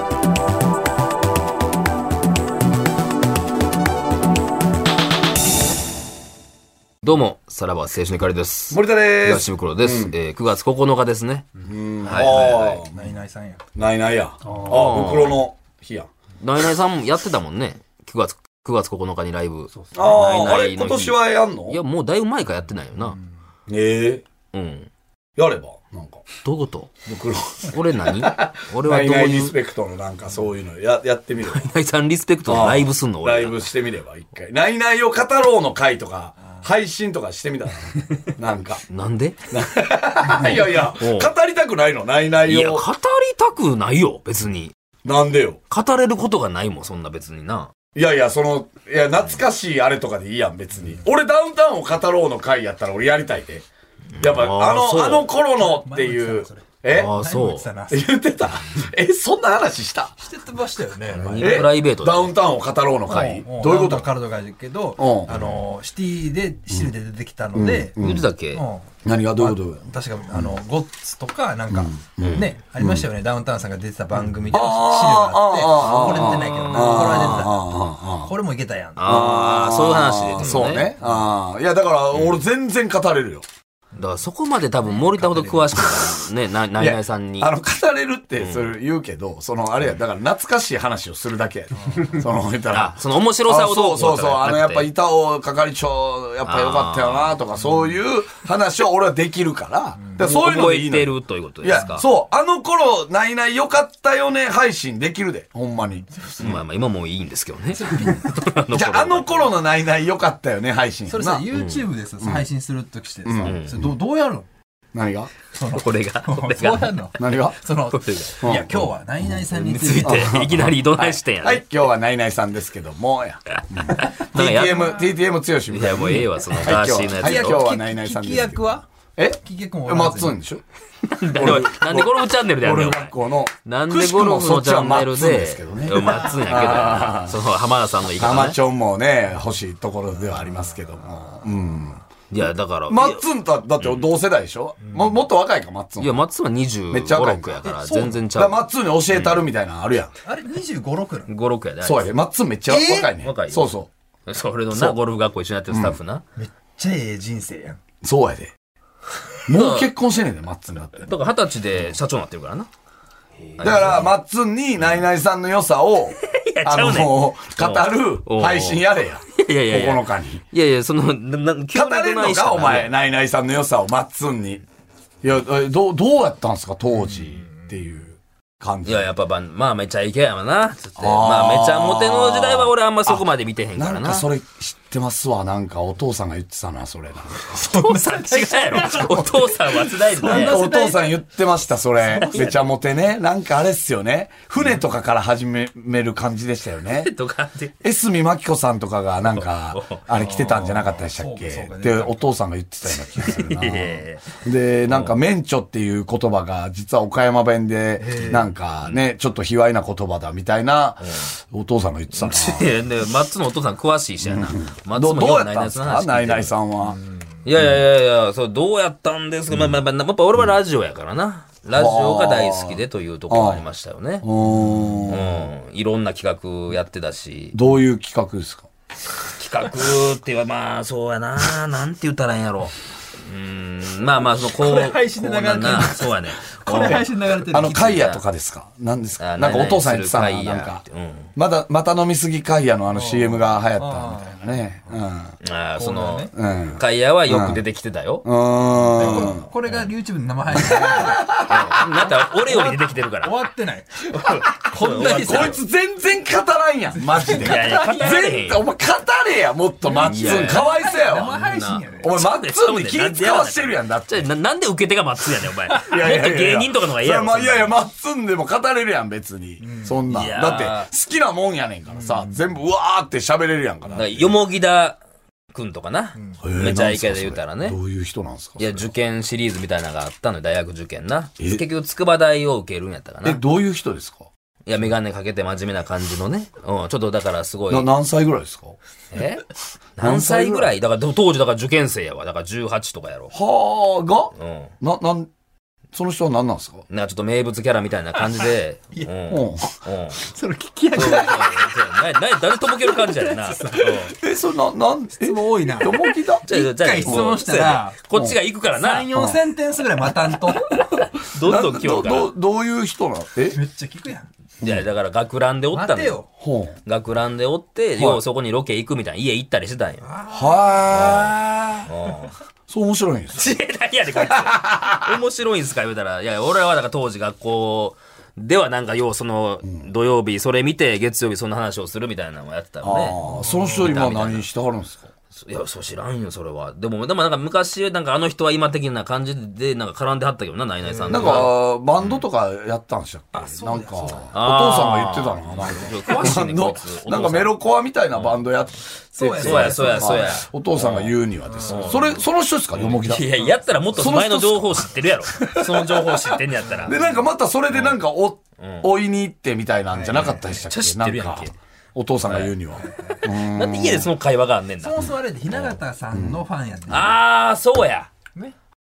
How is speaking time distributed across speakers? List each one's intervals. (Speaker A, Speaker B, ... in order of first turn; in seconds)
Speaker A: 7.0-11.5, 12.0-12.9, 14.6-15.4, 16.4-23.2, 24.5-24.9, 26.4-26.9, 27.6-29.6, 31.4-33.7, 38.9-39.8, 40.4-41.3, 42.4-44.7, 45.7-47.7, 54.1-55.4, 56.9-57.7, 61.1-62.3, 68.0-68.6, 72.2-72.5, 76.1-77.5, 79.0-80.9, 82.1-82.4, 84.0-87.5, 88.4-88.7, 92.7-94.9, 96.4-97.4, 100.2-102.0, 106.4-109.5, 111.5-111.8, 113.4-113.8, 115.7-117.2, 117.8-118.4, 119.4-121.7, 123.5-125.0, 125.7-127.7, 131.0-138.6, 142.3-143.2, 143.8-144.1, 146.0-149.5, 151.2-152.2, 153.1-156.2, 159.5-159.9, 161.0-162.7, 163.6-164.1, 166.2-172.9, 178.8-184.3, 187.5-190.6, 192.1-192.7, 196.8-197.7, 199.2-200.1, 203.1-205.2, 211.0-211.3, 212.1-216.6, 217.4-224.3, 224.9-227.6, 229.3-238.2, 239.2-241.3, 245.4-248.3, 248.9-249.9, 251.4-253.4, 254.4-255.6, 257.3-258.6, 260.0-267.8, 270.1-270.9, 273.9-275.0, 275.5-277.8, 278.6-283.4, 284.6-287.9, 289.1-289.4, 290.0-293.3, 294.3-294.7, 296.9-300.2, 300.9-304.1, 306.4-309.1, 310.7-312.3, 314.6-316.2, 316.8-320.1, 320.9-322.4, 323.3-333.2, 333.8-334.5, 335.3-342.2, 344.3-347.6, 348.1-348.4, 349.4-357.0, 357.7-358.0, 358.6-358.9, 360.1-361.5, 362.2-362.6, 363.2-365.8, 366.9-368.1
Speaker B: 8.7-10.1, 11.6-13.1, 13.8-16.1, 19.9-21.8, 23.7-24.2, 25.4-26.2, 27.0-31.6, 32.5-38.8, 39.5-42.9, 45.0-45.6, 47.9-53.6, 54.2-57.1, 57.9-60.1, 61.4-64.1, 65.0-65.5, 67.5-68.2, 69.0-70.6, 71.7-73.1, 74.5-78.3, 79.0-83.4, 85.8-86.2, 86.8-106.6, 108.7-111.5, 112.2-112.5, 113.2-113.9, 114.9-115.3, 117.2-117.6, 118.4-119.4, 120.0-130.6, 131.2-137.4, 138.1-142.0, 142.9-146.2, 146.9-147.6, 148.3-150.1, 151.8-153.9, 154.7-155.0, 155.7-156.0, 158.0-158.5, 159.5-161.1, 163.6-170.4, 171.7-174.6, 175.2-179.1, 181.0-187.6, 190.2-197.1, 197.8-212.7, 214.2-217.0, 221.7-223.7, 224.2-225.5, 227.5-228.7, 236.8-240.8, 241.3-245.3, 246.3-247.6, 248.2-249.4, 250.5-251.7, 255.0-264.2, 265.9-274.4, 276.4-278.9, 281.4-281.6, 283.2-284.3, 287.7-288.8, 290.0-290.7, 293.3-295.3, 295.9-296.9, 299.3-299.7, 304.1-306.5, 307.0-307.4, 308.1-308.4, 309.1-309.4, 311.4-313.6, 316.4-316.8, 318.0-318.2, 320.3-321.9, 322.7-323.5, 324.1-325.1, 332.8-335.1, 341.1-353.4, 353.9-364.1, 366.1-366.4
Speaker C: 12.9-13.6, 19.7-20.2, 55.3-58.1, 60.2-61.6, 63.0-68.0, 68.5-79.4, 80.4-81.3, 84.8-85.8, 91.8-92.2, 100.0-100.3, 107.8-108.4, 111.1-114.5, 115.5-120.4, 127.1-128.8, 129.4-130.4, 144.8-145.2, 147.6-148.2, 150.2-151.3, 152.7-153.1, 156.4-157.8, 177.1-177.6, 187.6-191.1, 192.1-192.4, 200.1-202.2, 208.0-208.5, 216.8-217.1, 234.5-237.8, 242.9-245.0, 245.8-246.3, 248.9-255.6, 257.0-258.0, 259.8-262.2, 269.6-270.0, 271.9-272.4, 276.1-276.5, 298.2-299.1, 300.1-302.0, 302.6-304.1, 305.2-308.0, 308.7-311.0, 313.4-314.3, 315.7-316.3, 320.0-320.9, 333.2-334.0, 340.9-341.1, 343.3-344.3, 349.1-350.4, 351.4-351.9, 356.9-357.2, 359.9-360.5, 362.8-363.3, 364.8-367.2